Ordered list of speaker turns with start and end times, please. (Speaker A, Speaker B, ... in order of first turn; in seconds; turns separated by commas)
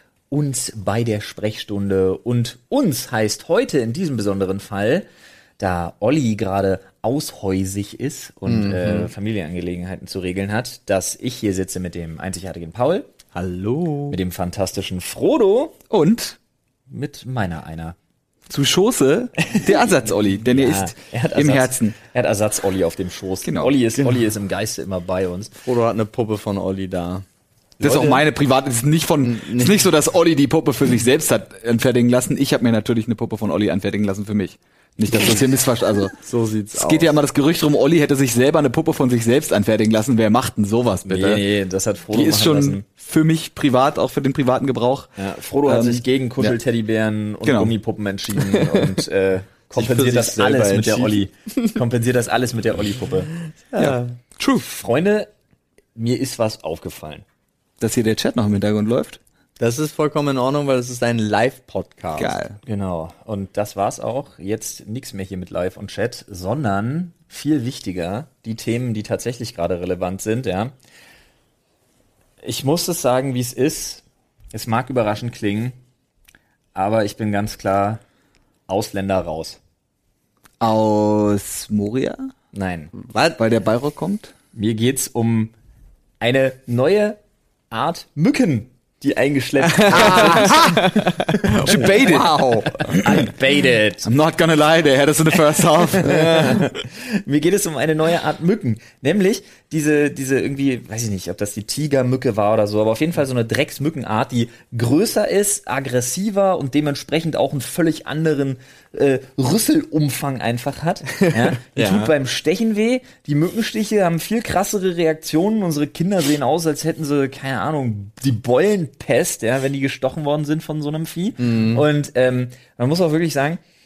Speaker A: 0.3-5.1, Speaker A: 5.6-13.1, Speaker B: 8.5-9.1, Speaker B: 13.3-14.2, Speaker A: 14.1-15.8, Speaker C: 15.9-16.4, Speaker A: 16.9-17.9, Speaker C: 18.5-21.9, Speaker A: 19.4-19.9, Speaker A: 20.4-25.5, Speaker C: 23.4-23.7, Speaker B: 25.6-27.2, Speaker C: 27.8-36.1, Speaker B: 27.8-28.2, Speaker B: 29.2-29.8, Speaker B: 36.2-37.1, Speaker C: 36.7-41.4, Speaker A: 41.1-42.8, Speaker C: 42.1-45.1, Speaker A: 45.2-53.3, Speaker C: 45.6-46.5, Speaker C: 47.4-47.7, Speaker C: 48.4-48.9, Speaker B: 49.7-51.7, Speaker B: 53.7-54.1, Speaker C: 53.8-54.6, Speaker A: 54.5-55.3, Speaker A: 55.9-57.2, Speaker C: 57.8-59.2, Speaker B: 59.6-62.4, Speaker C: 62.2-62.6, Speaker A: 62.6-70.7, Speaker A: 72.4-75.8, Speaker A: 76.7-78.0, Speaker A: 78.7-79.6, Speaker C: 80.6-82.3, Speaker A: 82.5-82.9, Speaker B: 82.9-83.4, Speaker C: 83.4-84.3, Speaker A: 84.5-85.5, Speaker A: 86.2-87.2, Speaker A: 87.7-90.8, Speaker B: 89.7-92.9, Speaker C: 89.9-93.3, Speaker A: 91.5-91.8, Speaker A: 92.8-94.1, Speaker C: 94.0-96.6, Speaker B: 96.0-96.7, Speaker A: 96.6-123.6, Speaker B: 111.2-112.1, Speaker B: 121.4-121.8